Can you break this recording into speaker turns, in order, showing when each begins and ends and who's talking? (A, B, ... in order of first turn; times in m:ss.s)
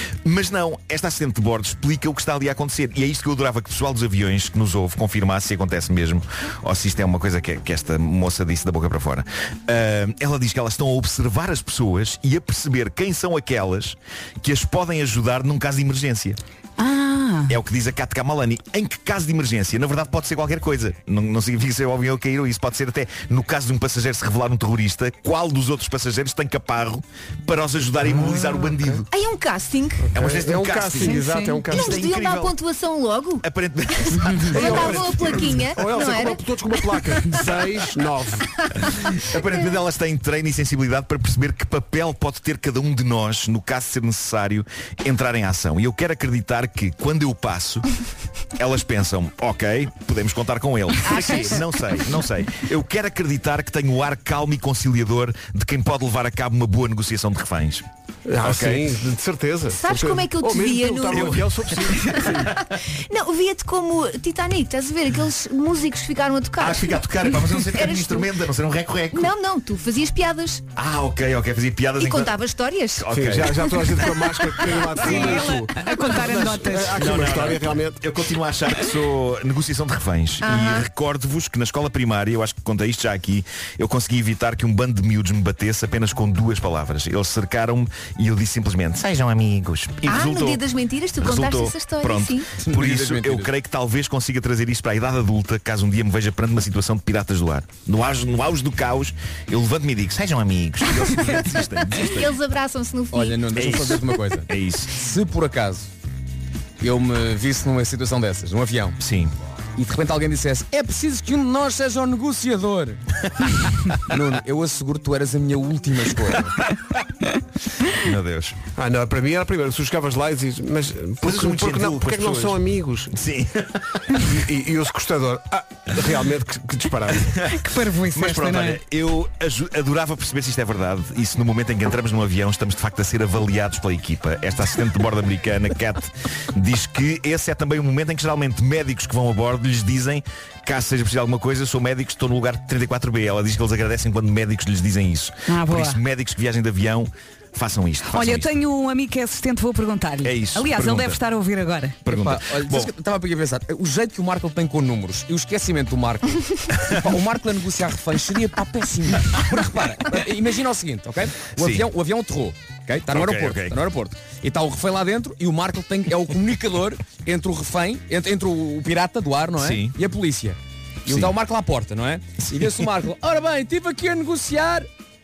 0:00.2-0:16.4 A
0:16.8-0:17.6 B
0:17.5-0:29.1 A
0:28.0-0:28.7 C
0:29.1-0:30.1 D
0:30.1-0:32.0 C
0:30.1-0:32.5 A
0:31.0-0:33.4 D
0:31.3-0:31.6 B
0:33.4-0:35.7 A
0:34.0-0:36.4 D
0:34.5-0:38.5 C
0:36.9-0:37.2 D
0:39.1-0:47.9 A
0:48.6-0:57.8 A
0:51.0-0:51.7 D
0:58.3-1:02.5 C
0:58.4-0:58.9 A
0:59.7-1:01.4 D
1:01.1-1:02.4 A
1:02.9-1:08.3 D
1:06.6-1:09.3 A
1:09.1-1:10.6 D
1:10.8-1:12.3 A
1:12.0-1:13.1 D
1:13.0-1:14.1 A
1:13.1-1:18.0 C
1:15.0-1:17.1 B
1:16.9-1:30.6 A
1:20.4-1:20.8 D
1:30.0-1:32.5 D
1:31.2-1:42.3 A
1:32.6-1:33.5 E
1:41.0-1:41.4 D
1:41.9-1:44.0 D
1:43.1-1:45.9 E
1:43.6-1:45.0 A
1:46.8-1:49.0 E
1:49.0-1:49.3 A
1:49.8-1:53.0 E
1:54.0-1:56.5 E
1:57.9-1:58.6 A
1:58.8-2:03.2 C
2:01.2-2:02.6 A
2:03.1-2:04.0 A
2:04.2-2:07.4 C
2:07.3-2:07.6 A
2:07.4-2:08.8 B
2:08.1-2:28.5 A
2:25.5-2:26.0 B
2:28.1-2:32.0 B
2:30.2-2:31.2 A
2:32.0-2:32.9 A
2:32.1-2:54.9 E
2:41.6-2:41.9 A
2:43.1-2:43.8 A
2:49.6-2:49.9 A
2:51.1-2:51.3 A
2:52.6-2:52.8 A